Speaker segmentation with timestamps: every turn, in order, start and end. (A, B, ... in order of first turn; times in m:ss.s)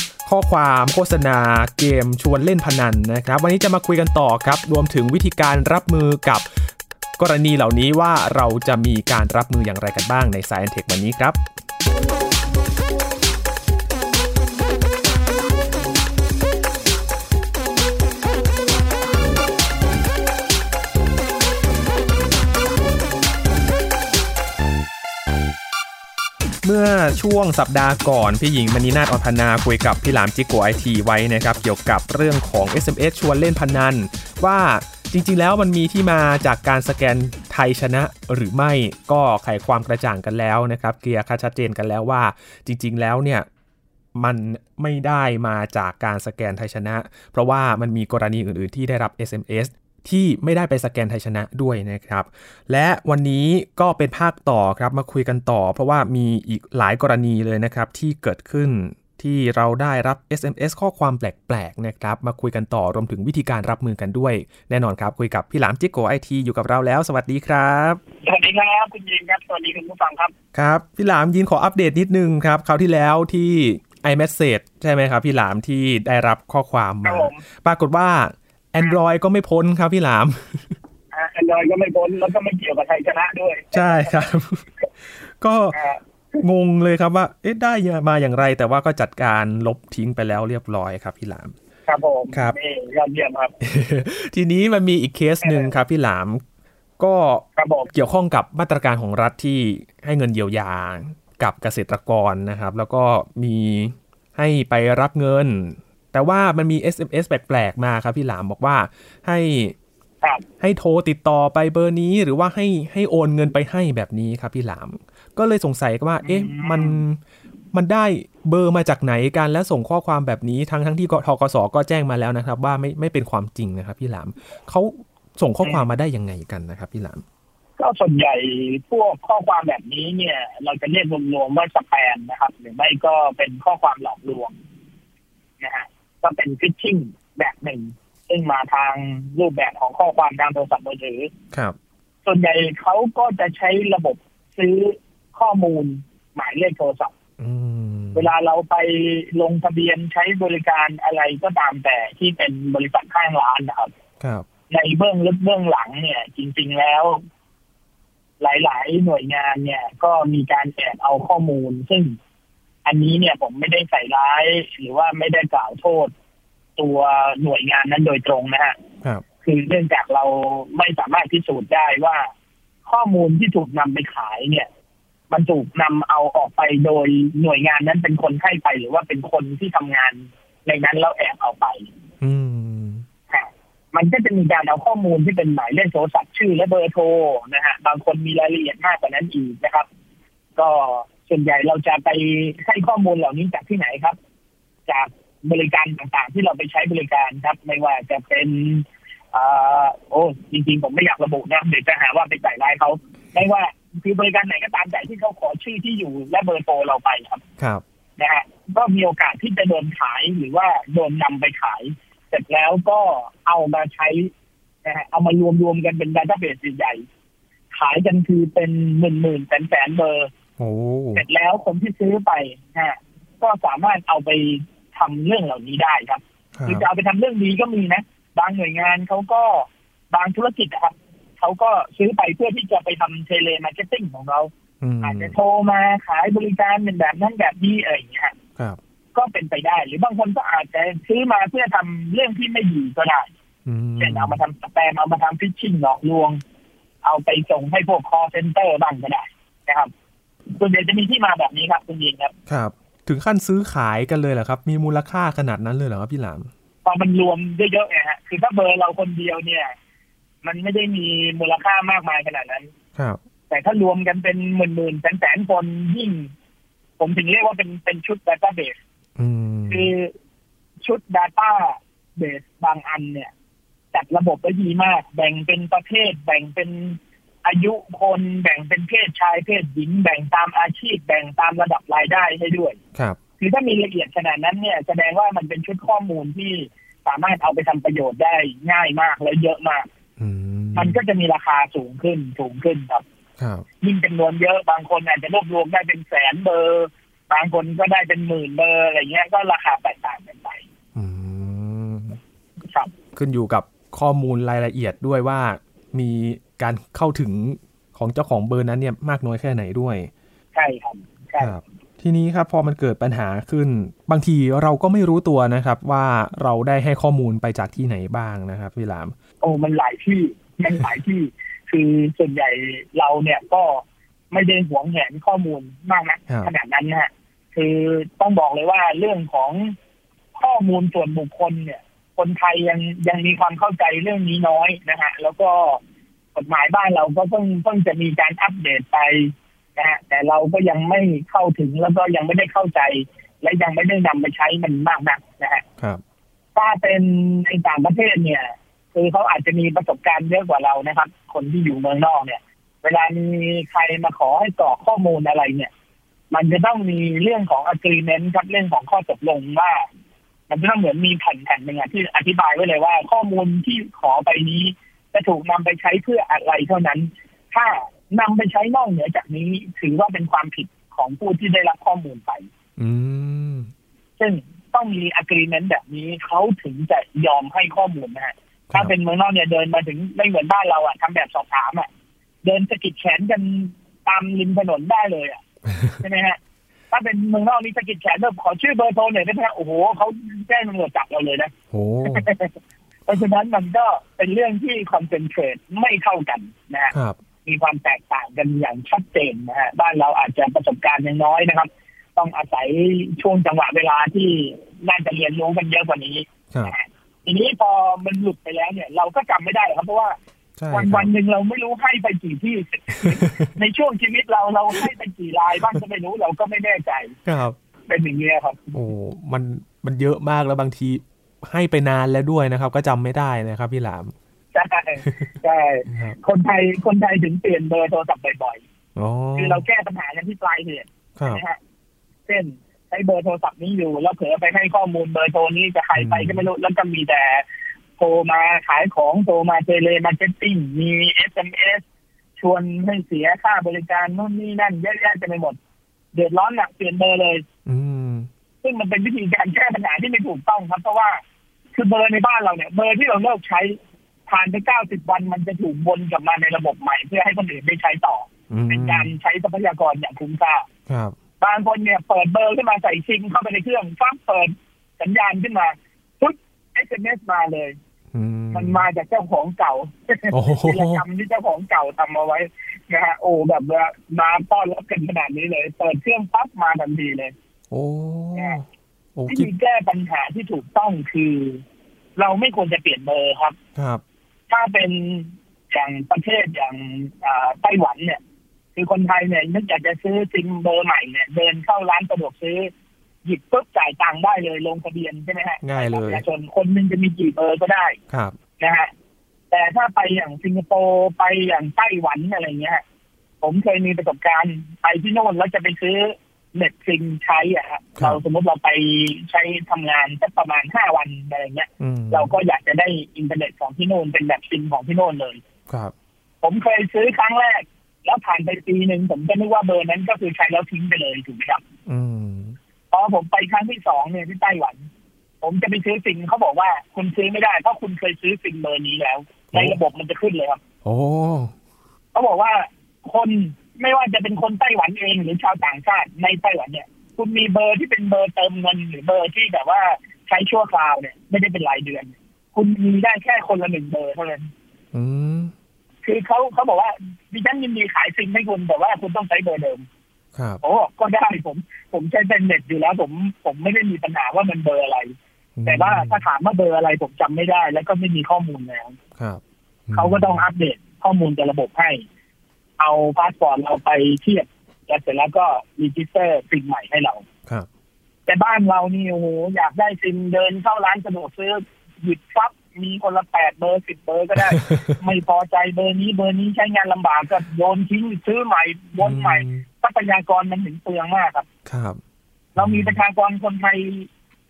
0:00.2-0:06.4 A
0:07.2-0:11.4 A
0:26.6-0:43.4 A
0:44.1-1:08.0 A
1:08.2-1:10.3 B
1:10.5-1:20.8 A
1:17.0-1:17.4 B
1:21.1-1:24.1 B
1:23.7-1:24.7 A
1:25.2-1:25.8 A
1:25.7-1:26.4 B
1:26.4-1:31.5 A
1:31.9-1:33.5 B
1:33.6-1:36.4 A
1:35.4-1:35.7 B
1:37.0-1:49.7 A
1:37.6-1:37.9 B
1:50.6-1:57.2 A
1:56.2-1:57.0 B
1:57.7-2:07.2 A
2:07.8-2:14.5 B
2:15.6-2:21.3 B
2:22.2-2:27.1 B
2:27.4-2:28.3 A
2:28.1-2:33.9 B
2:34.2-2:34.4 A
2:34.7-2:37.2 B
2:38.4-2:42.2 B
2:42.8-2:46.1 B
2:46.8-2:48.8 B
2:49.4-2:52.3 B
2:52.8-2:54.7 B
2:55.3-3:01.9 B
3:02.2-3:03.0 A
3:03.3-3:09.9 B
3:10.6-3:14.2 B
3:14.9-3:27.4 B
3:28.2-3:34.3 B
3:34.8-3:37.0 B
3:37.7-3:40.3 B
3:40.6-3:41.2 A
3:41.1-3:54.5 B
3:46.5-3:46.8 A
3:54.8-3:55.3 A
3:55.0-3:58.3 B
3:59.1-4:03.3 B
4:03.6-4:04.4 A
4:04.0-4:06.4 B
4:07.0-4:09.9 B
4:10.5-4:12.3 B
4:12.5-4:16.5 A
4:16.8-4:19.7 B
4:20.4-4:22.7 B
4:23.5-4:26.3 B
4:27.0-4:28.8 B
4:29.2-4:29.9 A
4:29.7-4:30.1 B
4:30.8-4:33.3 B
4:33.9-4:42.8 B
4:43.4-4:49.8 B
4:50.2-4:51.0 A
4:50.7-4:53.0 B
4:53.4-4:53.6 A
4:53.8-5:00.6 B
5:00.9-5:02.2 A
5:03.1-5:10.1 A
5:10.5-5:11.6 B
5:11.4-5:19.1 A
5:19.4-5:29.7 B
5:30.3-5:35.8 B
5:36.3-5:45.6 B
5:46.5-5:55.7 B
5:56.3-5:59.8 B
6:00.5-6:12.5 B
6:12.8-6:13.7 A
6:14.2-6:21.9 B
6:22.4-6:25.4 B
6:25.7-6:26.0 A
6:26.0-6:26.4 B
6:26.9-6:31.5 B
6:31.7-6:32.3 A
6:32.0-6:32.5 B
6:33.0-6:36.9 B
6:36.9-6:37.2 A
6:37.4-6:50.2 B
6:50.6-6:51.1 A
6:50.7-6:57.2 B
6:53.0-6:53.5 A
6:57.2-6:57.6 A
6:57.9-6:58.8 B
6:58.7-7:04.1 A
7:04.5-7:08.6 B
7:05.0-7:05.3 A
7:05.9-7:06.2 A
7:09.0-7:09.6 A
7:09.3-7:11.6 B
7:11.2-7:11.4 A
7:12.3-7:17.4 B
7:16.0-7:16.4 A
7:18.0-7:21.8 B
7:22.4-7:25.6 B
7:26.1-7:27.4 B
7:27.6-7:28.3 A
7:28.6-7:31.2 B
7:31.7-7:33.8 B
7:34.3-7:40.6 B
7:38.5-7:39.1 A
7:40.9-7:41.2 A
7:41.4-7:47.8 B
7:48.1-7:48.8 A
7:48.5-7:57.3 B
7:50.3-7:51.0 A
7:57.7-7:58.6 A
7:59.2-7:59.5 A
7:59.3-8:01.6 B
8:02.2-8:03.6 B
8:03.8-8:04.0 A
8:04.5-8:08.2 B
8:08.8-8:12.7 B
8:13.2-8:18.0 B
8:15.6-8:16.2 A
8:18.6-8:18.9 B
8:19.5-8:22.8 B
8:23.4-8:35.4 B
8:31.8-8:32.3 A
8:36.4-8:41.6 B
8:41.8-8:42.6 A
8:42.9-8:44.9 B
8:45.4-8:50.6 B
8:49.5-8:49.8 A
8:50.8-8:51.5 A
8:52.1-9:04.5 B
9:04.9-9:05.5 A
9:06.0-9:09.8 B
9:10.3-9:10.6 A
9:10.6-9:15.1 B
9:15.6-9:16.2 A
9:15.6-9:19.0 B
9:19.2-9:20.5 A
9:19.9-9:22.0 B
9:22.8-9:27.2 B
9:28.3-9:41.5 B
9:34.4-9:35.0 A
9:39.0-9:39.6 A
9:41.6-9:42.0 A
9:42.6-9:43.0 A
9:42.6-9:44.1 B